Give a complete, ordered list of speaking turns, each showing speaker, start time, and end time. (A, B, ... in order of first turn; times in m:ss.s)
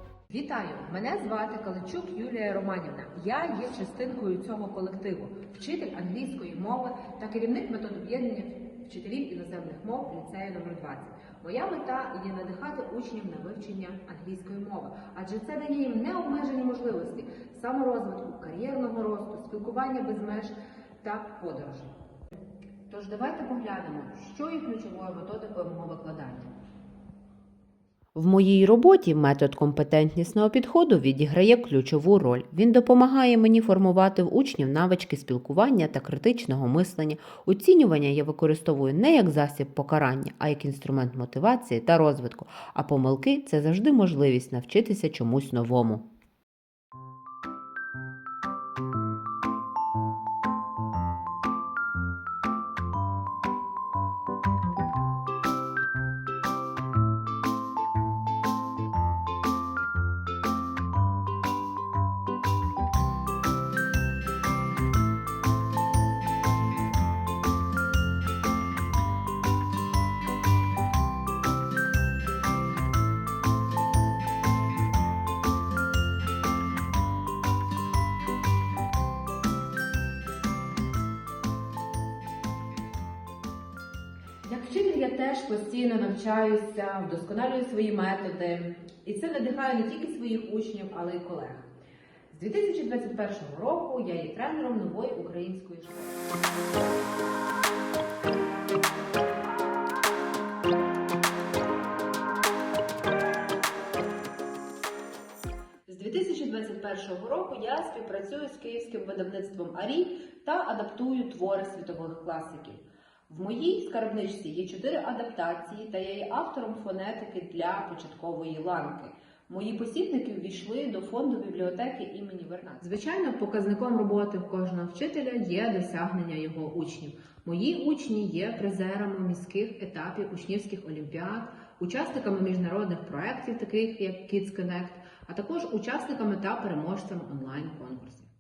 0:00.3-0:20.5 A
0:21.0-0:21.9 A
0:21.3-0:21.8 B
0:22.9-0:26.5 A
0:28.2-0:46.0 B
1:24.5-1:28.2 A
1:26.4-1:26.7 B
1:27.4-1:29.2 B
1:29.0-1:31.6 A
1:32.3-1:36.1 A
1:45.9-2:01.7 A
2:00.9-2:02.8 B
2:02.8-2:18.3 A